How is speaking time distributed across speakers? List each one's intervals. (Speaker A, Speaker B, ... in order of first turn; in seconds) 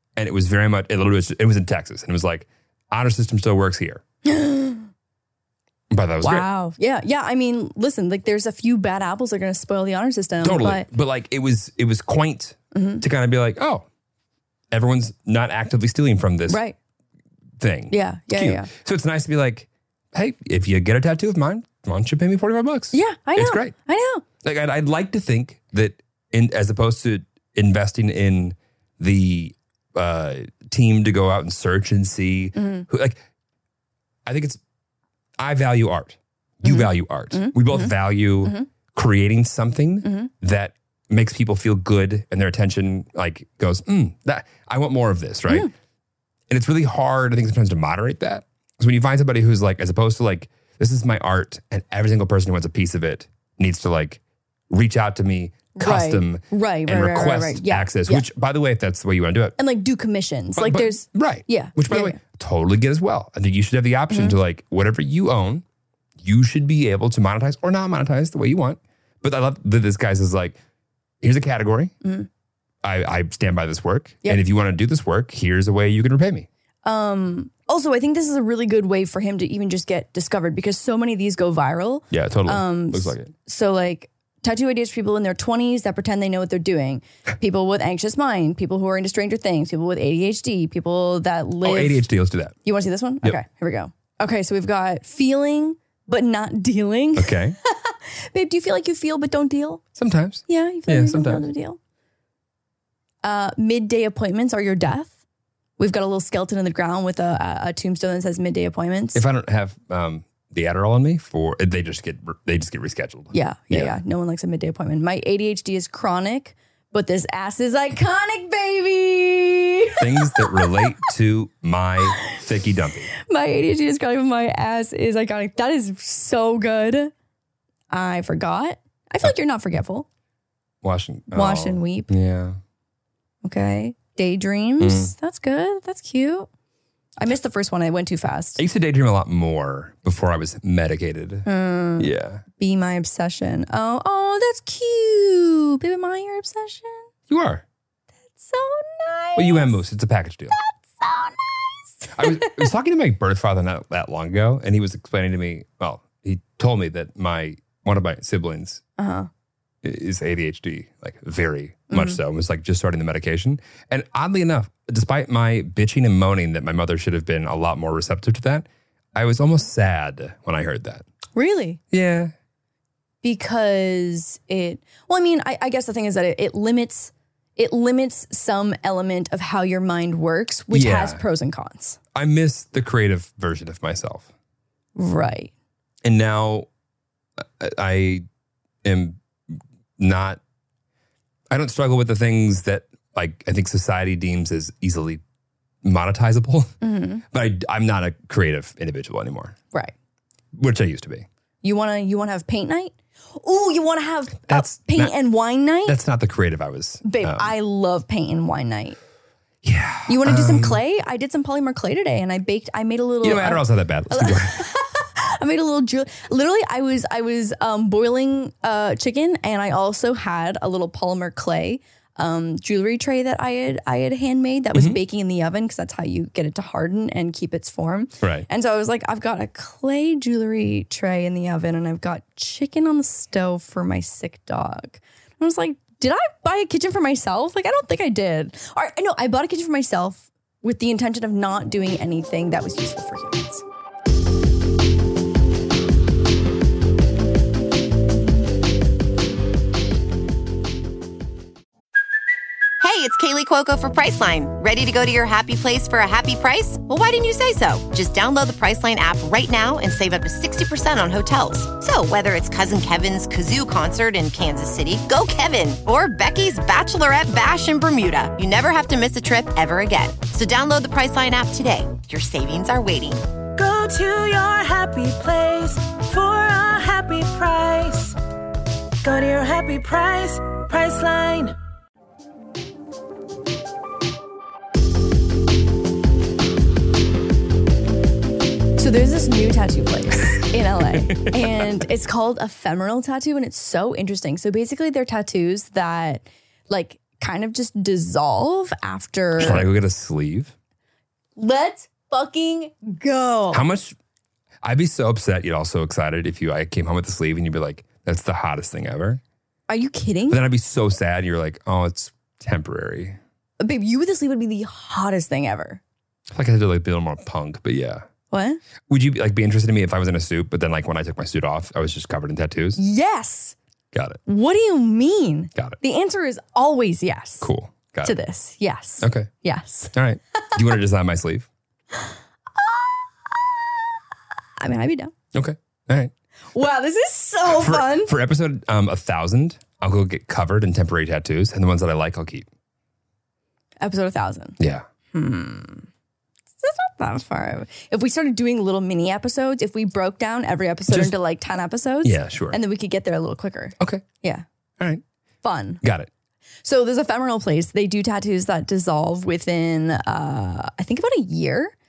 Speaker A: 0.1-4.0, 5.9-6.5, 10.4-13.9, 14.7-16.6, 17.6-23.8, 24.4-33.2, 34.3-34.6, 35.4-45.7, 46.5-59.6, 60.5-65.6, 66.2-70.6, 71.2-71.9, 72.8-76.5, 82.1-83.3, 91.6-92.5, 97.2-97.6, 100.0-101.5, 109.1-114.0, 120.0-123.1, 130.8-132.6, 134.8-135.1, 138.6-141.5, 142.0-142.4, 147.3-147.6, 149.4-150.6, 152.1-158.8, 159.8-171.1, 171.9-172.3, 180.7-181.2, 182.1-184.3, 186.0-186.7, 187.6-188.3, 188.8-190.4, 191.5-195.2, 195.8-196.7, 197.3-199.6, 200.5-201.3, 204.5-205.1, 205.8-207.5, 209.6-210.8, 213.2-214.7, 291.0-291.6, 299.4-300.5, 303.5-303.9, 304.6-309.2, 310.3-313.2, 316.3-318.0, 318.9-322.8, 323.9-324.2, 327.4-328.1, 329.0-329.3, 329.9-331.5, 335.3-336.1, 337.5-342.5, 344.6-344.8, 350.9-351.1, 352.0-352.6, 355.8-356.1
Speaker B: 4.2-4.9, 6.2-10.9, 12.7-13.0, 16.5-16.8, 17.9-18.7, 22.9-24.2, 32.6-32.9, 36.6-38.7, 40.0-40.3, 55.8-58.3, 59.6-62.2, 64.1-64.4, 72.0-72.3, 76.8-92.1, 92.6-99.8, 100.5-101.8, 103.2-105.2, 105.8-109.2, 113.3-120.9, 123.2-127.1, 127.9-130.1, 131.3-132.1, 133.4-136.5, 137.2-138.6, 141.5-147.1, 148.3-149.8, 150.6-152.7, 159.0-159.3, 161.9-162.2, 171.3-171.8, 173.2-182.0, 185.0-185.5, 196.8-197.2, 201.6-206.0, 207.1-209.0, 210.1-243.6, 288.8-299.7, 301.4-303.6, 309.7-310.4, 313.6-315.8, 318.3-318.6, 322.8-323.6, 324.3-327.5, 328.0-329.9, 331.9-333.8, 334.6-335.1, 336.5-338.1, 343.8-344.6, 345.1-345.9, 346.6-354.4, 355.4-355.8, 356.6-361.7
Speaker C: 252.8-273.2
Speaker D: 273.6-278.2, 279.0-281.5